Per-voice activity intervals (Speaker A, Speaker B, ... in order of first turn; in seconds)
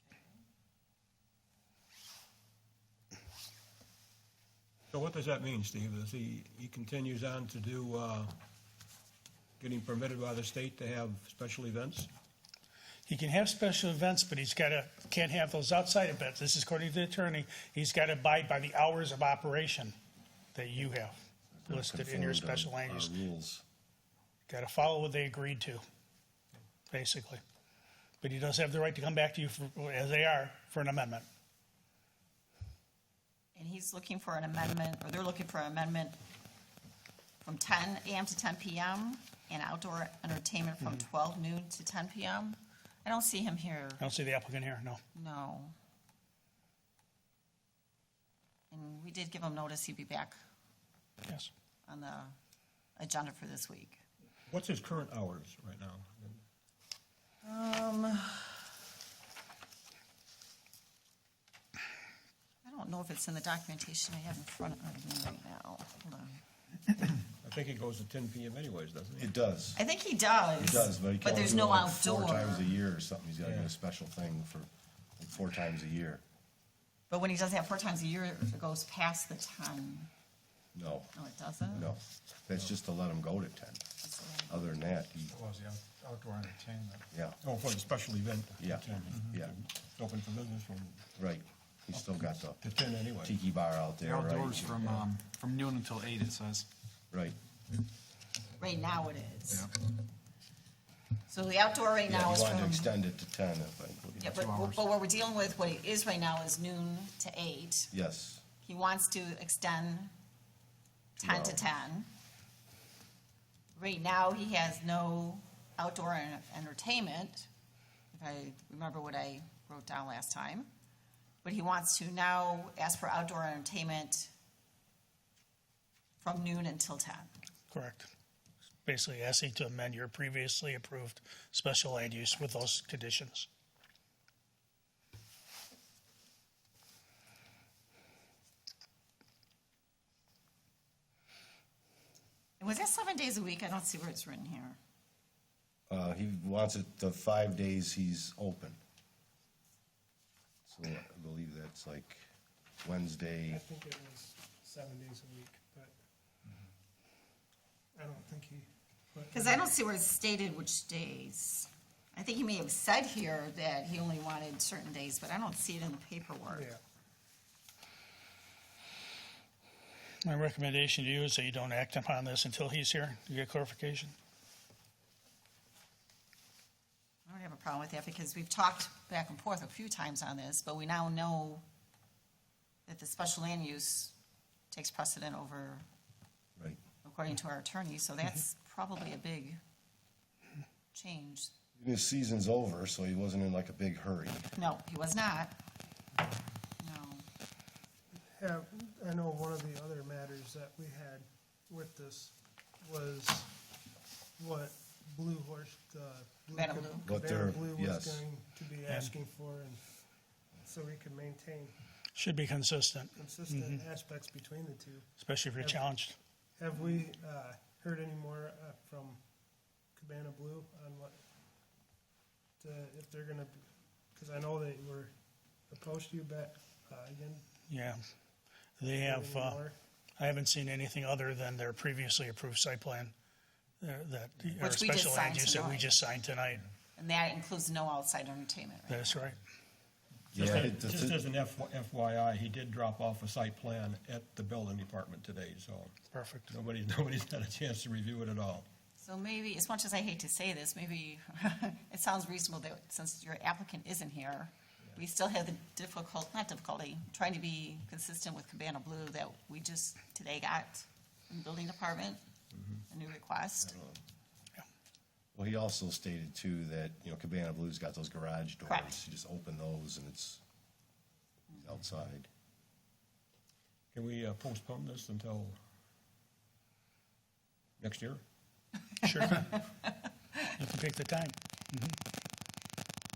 Speaker A: 4.9-8.3, 9.6-12.1, 54.5-56.4, 67.4-69.3, 73.4-73.7, 87.4-91.1, 92.6-93.4, 240.3-245.9, 246.5-248.7, 273.9-275.6, 277.8-278.2
Speaker B: 13.1-19.9, 20.5-21.1, 21.7-23.1, 24.5-25.8, 26.9-27.4, 28.2-31.2, 44.0-45.0, 127.7-128.1, 128.8-133.5, 170.2-174.1, 208.9-209.1, 212.1-213.8, 215.2-216.2, 227.7-228.0, 228.8-229.6, 230.2-233.1, 233.8-236.6, 238.9-239.4, 246.1-246.5, 279.0-279.6, 280.5-281.9
Speaker C: 21.6-23.6, 69.2-69.8, 70.6-76.2, 80.7-81.1, 81.7-83.8, 84.5-85.4, 87.1-87.4, 88.6-89.5, 91.2-92.6, 93.2-95.0, 97.1-97.4, 102.1-104.3, 107.9-108.4, 111.2-111.7, 145.9-148.8, 150.7-152.2, 152.8-153.6, 191.8-194.5, 207.1-208.2, 240.3-241.2, 265.3-270.4, 271.5-272.3
Speaker D: 33.5-36.2, 37.4-44.0, 45.1-45.7, 48.7-50.4, 51.9-52.3, 53.0-54.0, 57.4-58.6, 62.6-66.4, 69.8-72.7, 77.1-80.1, 81.1-81.9, 84.0-84.7, 98.6-99.7, 101.3-102.9, 104.2-107.9, 108.6-110.1, 111.2-112.1, 113.7-117.5, 118.1-120.7, 121.4-124.3, 126.2-127.3, 142.6-144.8, 159.3-166.7, 177.2-181.6, 182.9-184.1, 184.7-185.8, 187.0-189.6, 190.9-191.5, 194.6-195.5, 196.8-197.2, 206.5-207.1, 234.6-236.0, 236.9-239.2, 249.0-262.2, 262.9-263.8, 268.7-269.0
Speaker E: 85.3-87.1, 94.0-96.7, 104.3-104.8
Speaker F: 153.5-155.9, 157.9-159.7, 166.5-166.8, 198.1-203.5, 204.4-209.9, 210.6-211.7, 213.2-215.1, 216.6-219.2, 219.9-221.2, 222.6-225.1, 225.7-227.4, 228.8-229.7